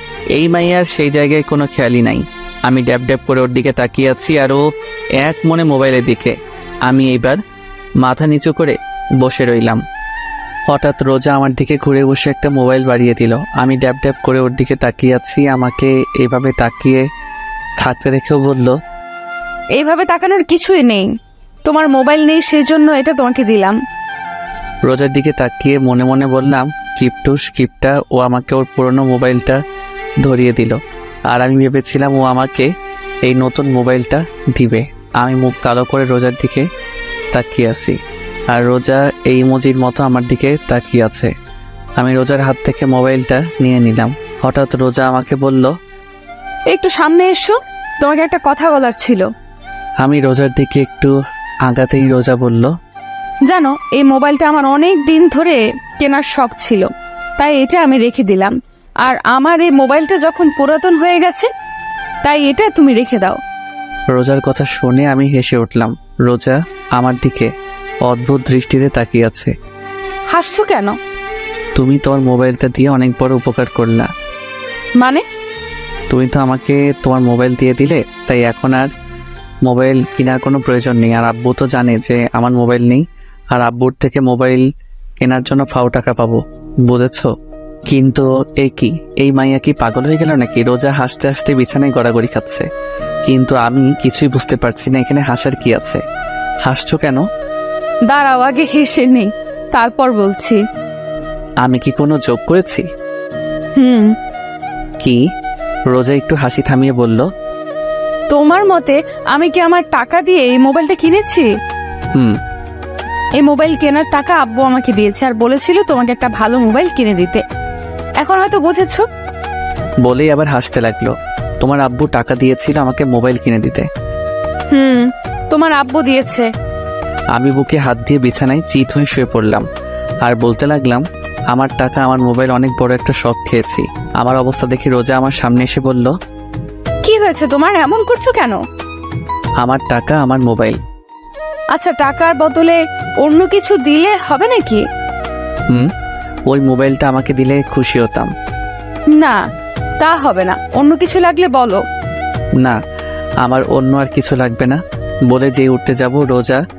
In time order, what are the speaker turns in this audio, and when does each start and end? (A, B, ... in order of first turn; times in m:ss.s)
0:00.4-0:04.6 A
0:05.2-0:06.4 A
0:06.9-0:07.4 A
0:08.0-0:09.8 A
0:10.7-0:17.0 A
0:17.8-0:18.8 A
0:19.8-0:21.1 B
0:21.6-0:23.8 B
0:24.8-0:29.6 A
0:30.2-0:32.7 A
0:33.3-0:36.7 A
0:37.3-0:38.0 A
0:38.5-0:41.3 A
0:42.0-0:45.7 A
0:46.7-0:49.3 B
0:50.0-0:51.1 A
0:51.7-0:52.7 A
0:53.5-1:01.5 B
1:02.2-1:03.4 B
1:04.1-1:07.5 A
1:08.1-1:09.5 A
1:10.3-1:11.0 B
1:11.8-1:14.1 A
1:15.0-1:15.2 B
1:16.1-1:18.9 A
1:19.7-1:24.6 A
1:25.2-1:27.3 A
1:27.9-1:32.7 A
1:33.2-1:36.0 A
1:36.6-1:37.2 A
1:38.1-1:40.6 B
1:41.6-1:42.8 A
1:43.8-1:44.1 B
1:45.9-1:47.3 A
1:48.3-1:51.5 B
1:53.4-1:57.4 B
1:58.2-1:59.1 B
2:00.0-2:03.9 A
2:04.7-2:06.5 B
2:07.4-2:09.6 A
2:10.2-2:16.1 A
2:17.0-2:18.6 B
2:19.6-2:20.8 A
2:21.7-2:24.8 B
2:26.5-2:28.3 A
2:30.0-2:31.8 B
2:33.4-2:36.6 A